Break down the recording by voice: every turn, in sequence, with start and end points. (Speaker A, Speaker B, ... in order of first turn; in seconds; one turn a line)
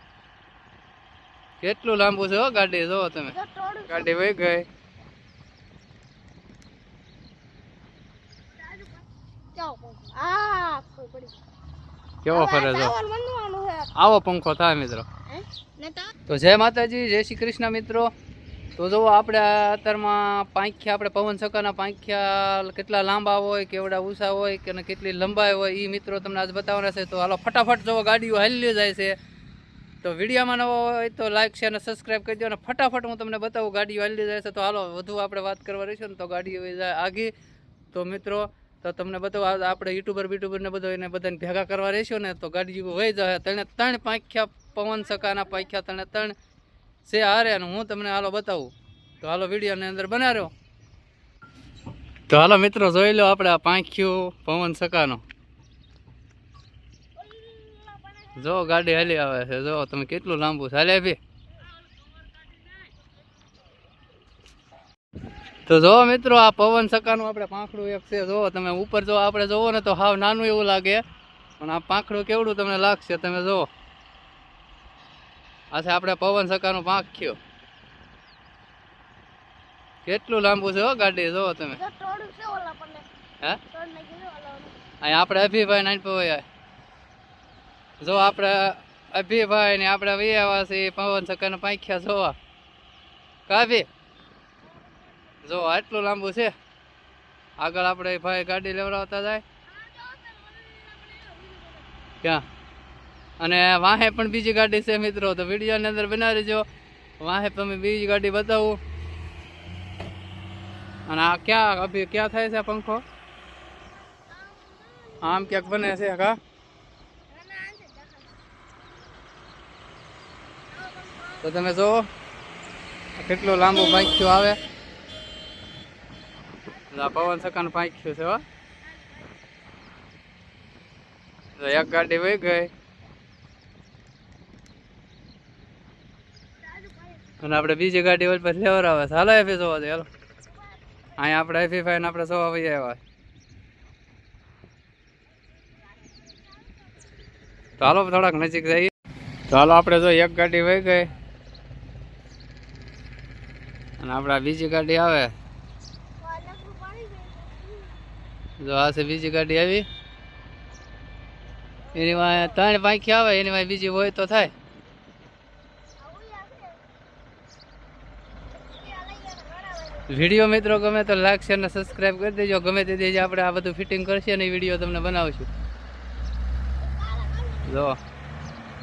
Speaker A: 1.6-3.4
Speaker B: 3.3-4.1
Speaker A: 3.9-4.7
Speaker B: 8.7-8.9
Speaker B: 9.6-11.3
Speaker A: 12.2-13.0
Speaker B: 12.3-13.9
Speaker A: 14.0-15.1
Speaker B: 15.3-16.1
Speaker A: 16.3-18.1
Speaker A: 18.8-29.1
Speaker A: 30.0-37.3
Speaker A: 37.9-46.4
Speaker B: 45.0-45.6
Speaker A: 47.1-48.7
Speaker A: 49.2-50.5
Speaker A: 52.3-55.2
Speaker B: 57.1-59.2
Speaker A: 58.4-61.2
Speaker B: 62.5-62.9
Speaker A: 65.7-71.0
Speaker A: 71.6-73.7
Speaker A: 75.7-77.4
Speaker A: 80.0-81.8
Speaker B: 81.8-83.1
Speaker B: 83.7-84.8
Speaker A: 85.0-86.4
Speaker A: 88.0-92.4
Speaker A: 93.5-93.9
Speaker B: 94.7-95.5
Speaker A: 95.5-96.5
Speaker A: 97.6-99.4
Speaker B: 99.7-102.2
Speaker A: 103.4-106.7
Speaker A: 107.2-108.8
Speaker A: 111.1-113.0
Speaker B: 114.1-115.8
Speaker A: 115.2-116.4
Speaker B: 117.3-118.3
Speaker B: 120.7-121.6
Speaker A: 121.4-122.1
Speaker A: 123.2-124.6
Speaker B: 126.7-127.7
Speaker A: 126.9-128.4
Speaker B: 128.8-129.3
Speaker A: 131.6-132.7
Speaker B: 136.6-137.4
Speaker A: 137.4-140.1
Speaker B: 140.5-140.8
Speaker A: 141.2-143.0
Speaker B: 145.7-147.1
Speaker A: 147.8-148.9
Speaker A: 149.5-151.1
Speaker A: 154.0-155.3
Speaker B: 156.2-158.0
Speaker A: 158.6-159.9
Speaker B: 161.9-162.6
Speaker A: 161.9-164.5
Speaker B: 166.0-166.8
Speaker B: 168.7-170.2
Speaker A: 170.1-175.5
Speaker B: 176.8-177.8
Speaker A: 177.7-178.0